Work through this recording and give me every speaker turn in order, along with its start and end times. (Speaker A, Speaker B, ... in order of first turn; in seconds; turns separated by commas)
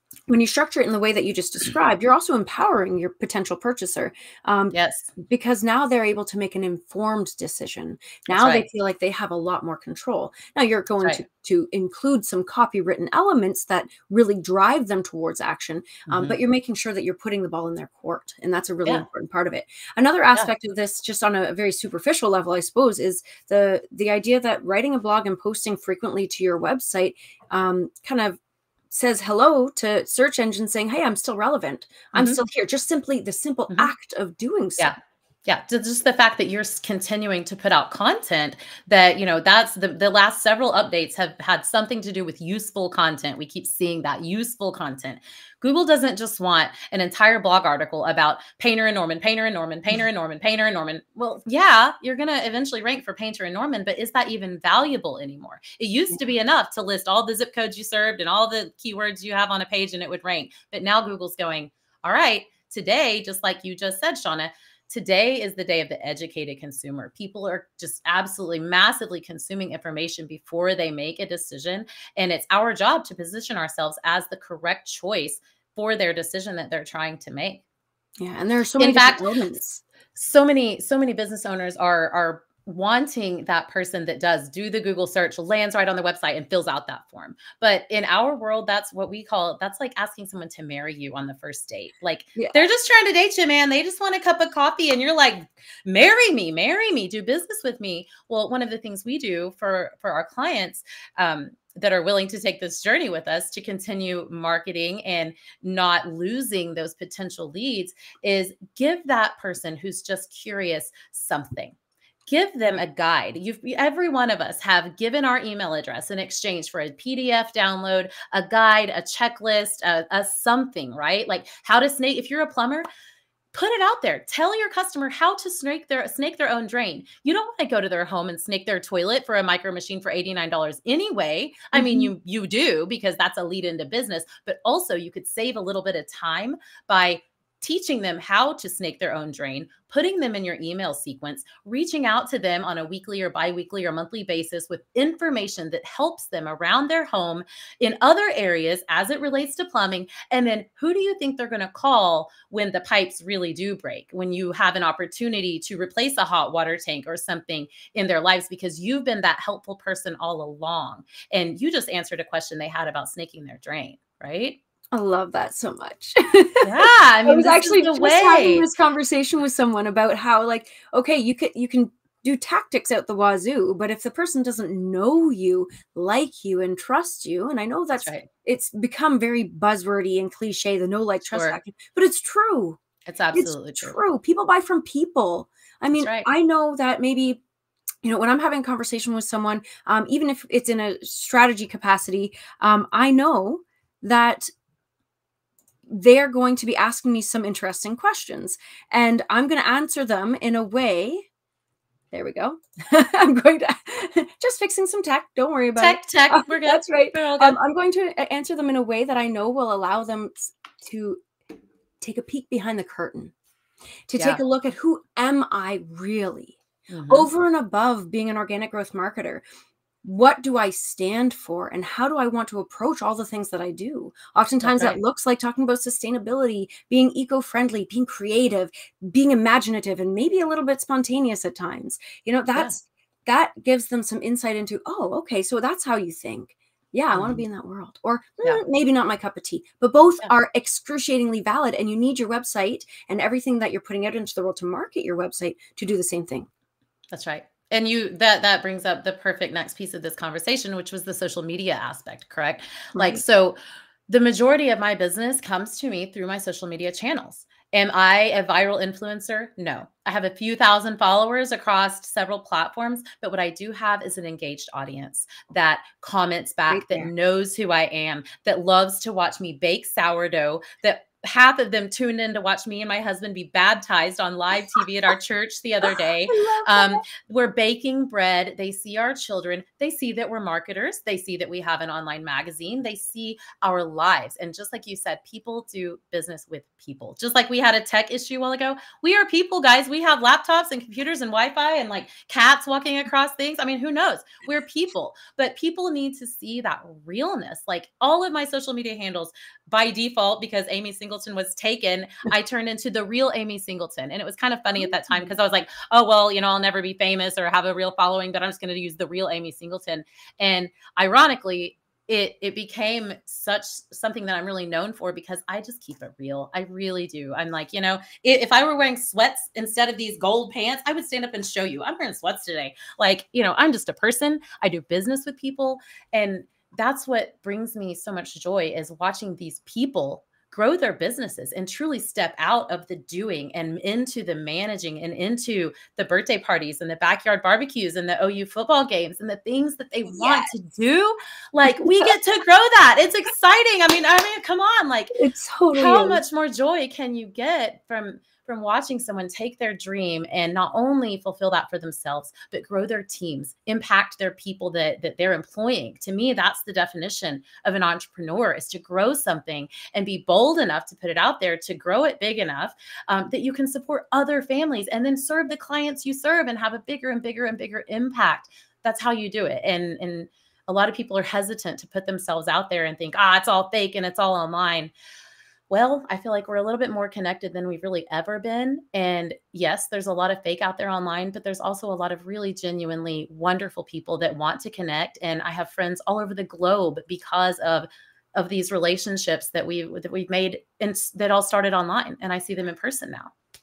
Speaker A: 0.3-28.4, Speaker B: 4.7-5.1, Speaker B: 8.3-8.7, Speaker B: 16.1-16.4, Speaker A: 28.9-34.9, Speaker B: 32.1-32.4, Speaker B: 34.8-77.6, Speaker A: 78.2-79.8, Speaker B: 78.8-79.2, Speaker B: 80.2-111.7, Speaker B: 112.3-122.9, Speaker B: 123.5-164.6, Speaker A: 131.7-132.1, Speaker A: 164.9-182.8, Speaker B: 166.6-168.7, Speaker B: 178.0-178.3, Speaker B: 181.3-181.6, Speaker B: 183.1-184.0, Speaker A: 183.3-187.4, Speaker B: 185.9-186.3, Speaker A: 188.0-194.5, Speaker A: 195.9-201.2, Speaker A: 202.1-211.2, Speaker B: 205.8-207.6, Speaker A: 212.0-213.3, Speaker A: 214.1-216.6, Speaker B: 216.9-217.3, Speaker A: 217.1-219.4, Speaker A: 220.0-246.5, Speaker B: 224.6-225.0, Speaker B: 237.1-237.4, Speaker B: 247.1-345.1, Speaker A: 252.9-253.2, Speaker A: 266.7-267.1, Speaker A: 275.8-277.0, Speaker A: 304.9-305.3, Speaker A: 340.1-340.5, Speaker A: 341.8-342.1, Speaker A: 345.1-346.2, Speaker B: 345.7-374.9, Speaker B: 375.7-393.3